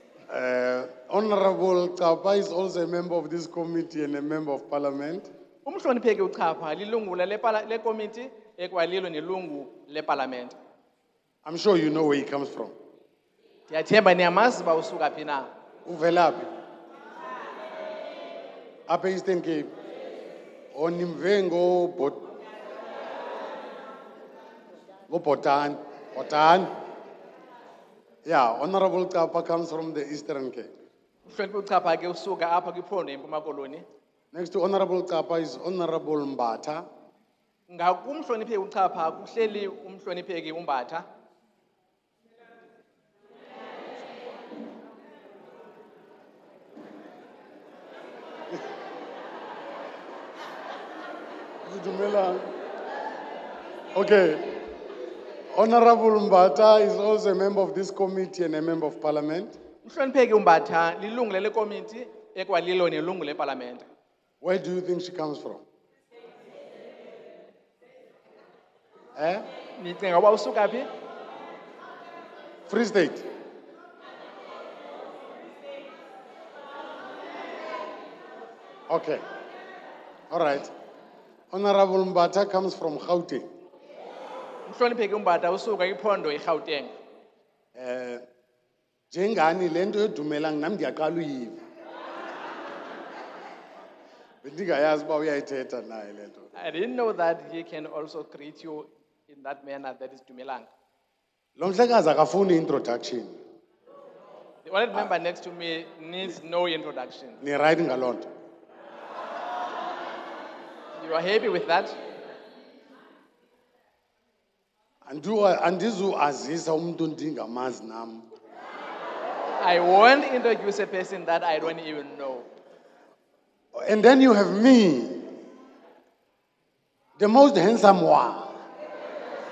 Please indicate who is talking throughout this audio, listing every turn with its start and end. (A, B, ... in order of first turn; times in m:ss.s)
0:00.3-0:05.3 A
0:05.6-0:10.6 B
0:11.4-0:12.7 A
0:13.7-0:15.5 B
0:15.9-0:16.5 A
0:18.9-0:19.7 A
0:20.7-0:22.3 A
0:25.1-0:26.7 A
0:28.3-0:30.7 A
0:31.3-0:33.8 B
0:34.3-0:36.8 A
0:37.7-0:41.0 B
0:51.6-0:52.5 A
0:53.9-0:54.5 A
0:55.5-0:59.6 A
0:59.8-1:03.9 B
1:04.4-1:05.6 A
1:09.2-1:09.5 A
1:09.8-1:10.9 B
1:12.7-1:13.2 A
1:18.9-1:19.2 A
1:20.3-1:20.7 A
1:21.5-1:23.5 A
1:24.7-1:26.9 B
1:27.8-1:28.2 A
1:29.1-1:31.6 A
1:34.4-1:36.5 A
1:36.6-1:40.7 B
1:41.6-1:43.4 A
1:44.6-1:47.4 B
1:47.4-1:48.3 A
1:51.0-1:51.9 B
1:55.0-1:58.3 A
1:59.6-2:02.5 B
2:03.8-2:05.3 A
2:07.2-2:08.5 A